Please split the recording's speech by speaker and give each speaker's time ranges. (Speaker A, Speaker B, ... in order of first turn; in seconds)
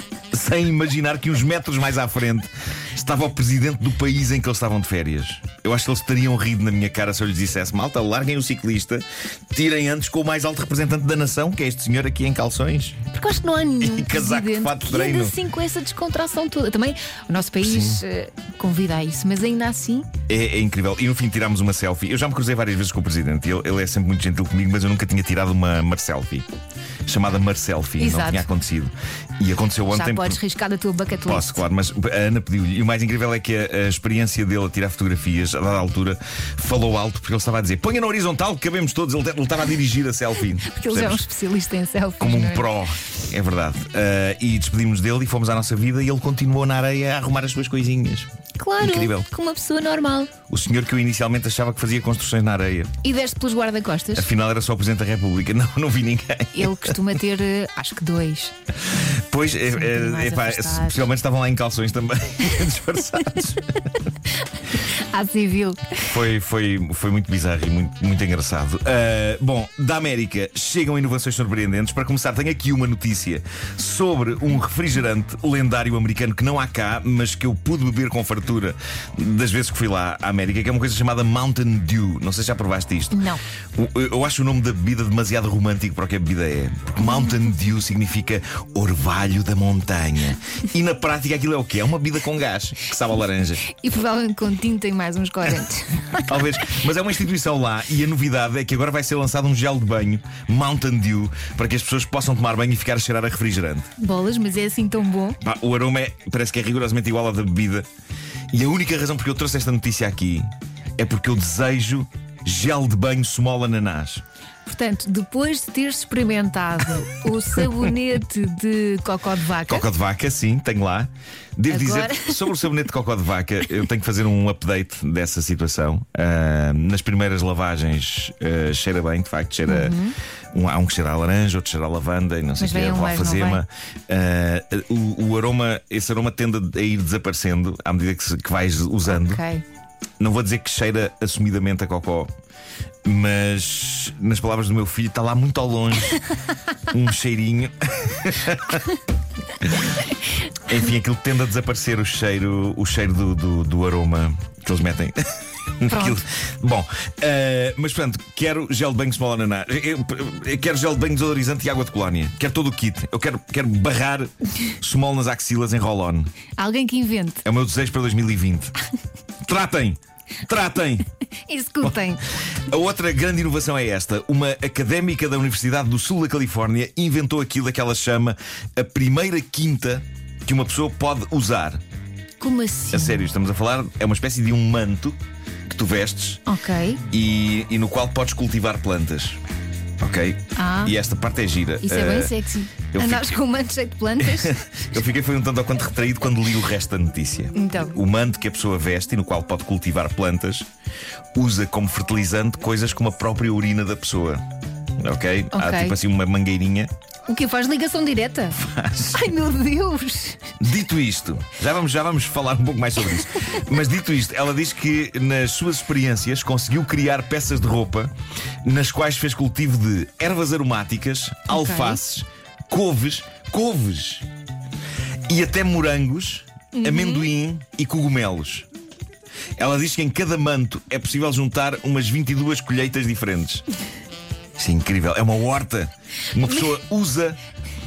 Speaker A: 0.3-13.1, 13.8-15.3, 17.6-18.0, 20.3-26.5, 27.1-30.4, 31.3-41.2, 42.2-48.3, 48.8-49.3, 50.5-52.9, 54.1-57.0, 58.9-64.0, 66.1-83.2, 83.8-93.7, 96.3-103.9, 105.4-107.9, 108.5-114.2, 119.7-130.0, 130.5-139.4, 140.2-142.3, 143.1-146.2, 146.9-148.9, 149.6-150.1, 150.7-155.2, 155.8-166.3, 167.4-168.7, 169.4-171.1, 171.8-181.8, 182.9-186.4, 187.1-189.4, 190.0-192.3, 192.9-193.4, 194.2-200.7, 201.3-204.4, 205.0-206.9, 208.5-209.3, 210.6-218.1, 218.6-224.2, 225.3-228.7, 229.6-233.7, 234.6-237.4
Speaker B: 13.1-20.1, 28.0-28.5, 29.9-31.6, 40.6-42.7, 48.6-50.3, 53.0-54.3, 56.5-58.5, 59.7-61.1, 64.3-66.1, 83.1-83.4, 87.0-87.4, 93.6-96.7, 104.0-105.4, 114.7-119.9, 121.7-122.6, 129.7-130.2, 132.6-133.6, 139.1-139.6, 155.9-156.2, 166.6-167.4, 171.5-172.2, 182.4-183.3, 186.5-187.0, 190.6-191.0, 191.8-194.6, 197.6-198.0, 205.5-206.0, 207.3-208.6, 209.1-210.4, 221.5-222.0, 226.7-227.3